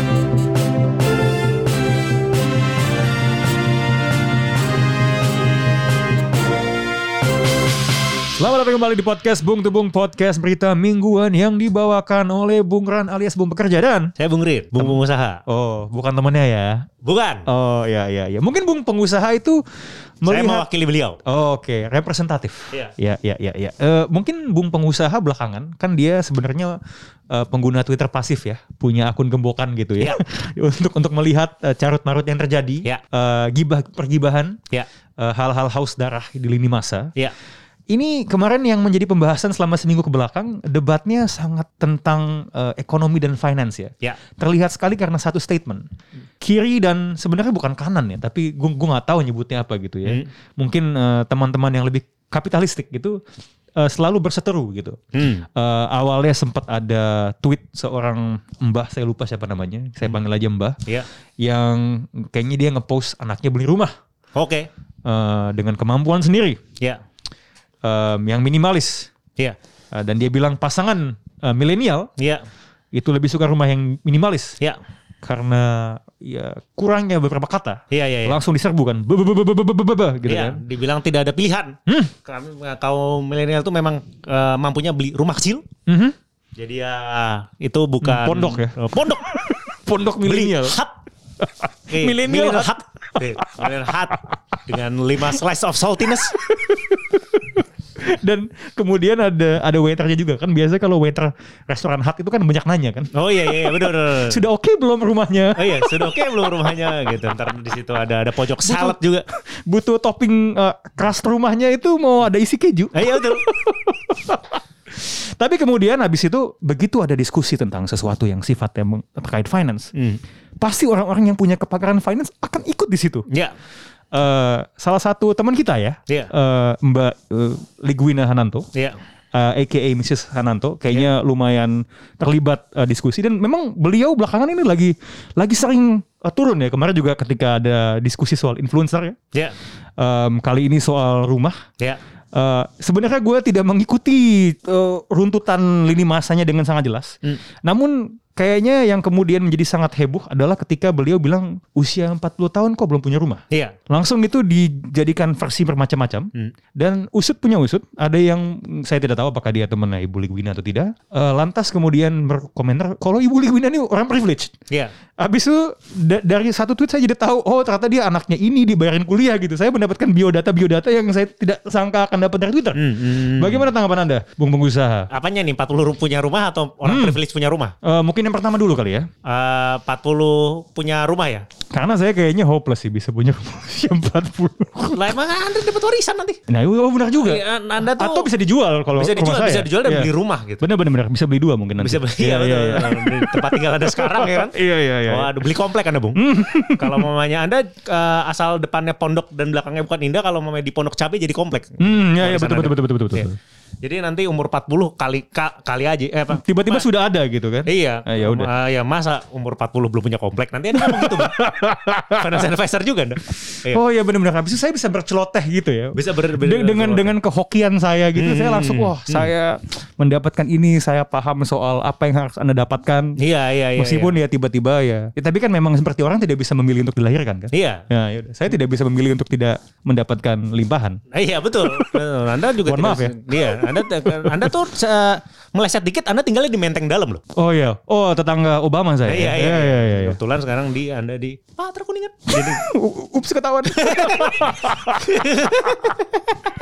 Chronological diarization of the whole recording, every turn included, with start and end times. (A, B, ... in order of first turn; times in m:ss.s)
0:08.4-0:14.1 A
0:14.2-0:15.4 B
0:14.8-0:16.9 A
0:17.0-0:17.5 B
0:17.4-0:19.6 A
0:20.2-0:20.6 A
0:20.2-0:21.2 B
0:21.2-0:26.8 A
0:27.3-0:34.6 A
0:35.2-0:37.1 A
0:37.9-0:45.8 A
0:46.4-0:53.2 A
0:53.8-0:55.0 A
0:55.1-0:55.4 B
0:55.5-1:00.8 A
1:01.4-1:03.9 A
1:04.3-1:04.7 B
1:05.0-1:06.6 A
1:07.8-1:09.1 A
1:09.9-1:12.1 A
1:12.2-1:12.4 B
1:12.9-1:14.6 A
1:15.2-1:20.6 A
1:17.9-1:18.4 B
1:20.2-1:25.6 B
1:21.9-1:22.1 A
1:25.9-1:26.1 A
1:26.6-1:29.3 B
1:28.0-1:30.8 A
1:30.2-1:31.0 B
1:31.4-1:34.6 A
1:31.9-1:36.4 B
1:36.3-1:47.3 A
1:43.1-1:44.4 B
1:45.5-1:49.2 B
1:48.6-1:49.0 A
1:49.6-1:59.9 A
1:52.9-1:53.4 B
1:59.9-2:00.2 B
2:00.6-2:03.3 A
2:03.3-2:03.5 B
2:04.1-2:08.7 A
2:09.3-2:19.2 A
2:20.0-2:21.6 A
2:22.3-2:44.5 A
2:33.5-2:33.8 B
2:45.2-2:55.1 A
2:52.7-2:53.7 B
2:55.1-2:57.7 B
2:56.8-2:57.2 A
2:57.8-2:59.1 A
2:59.2-3:01.5 B
3:01.7-3:05.1 A
3:04.9-3:06.4 B
3:06.5-3:15.4 A
3:07.2-3:08.3 B
3:08.9-3:10.6 B
3:11.8-3:23.3 B
3:16.2-3:17.1 A
3:21.8-3:23.4 A
3:23.8-3:26.9 B
3:26.3-3:28.5 A
3:27.6-3:31.4 B
3:30.8-3:32.3 A
3:32.1-3:33.8 B
3:33.5-3:43.2 A
3:35.9-3:37.1 B
3:38.1-3:39.3 B
3:43.2-3:44.2 B
3:43.8-3:51.0 A
3:47.5-3:47.8 B
3:51.1-3:57.2 B
3:52.6-3:54.5 A
3:57.3-4:00.2 A
3:59.0-4:02.6 B
4:02.3-4:05.9 A
4:03.6-4:06.2 B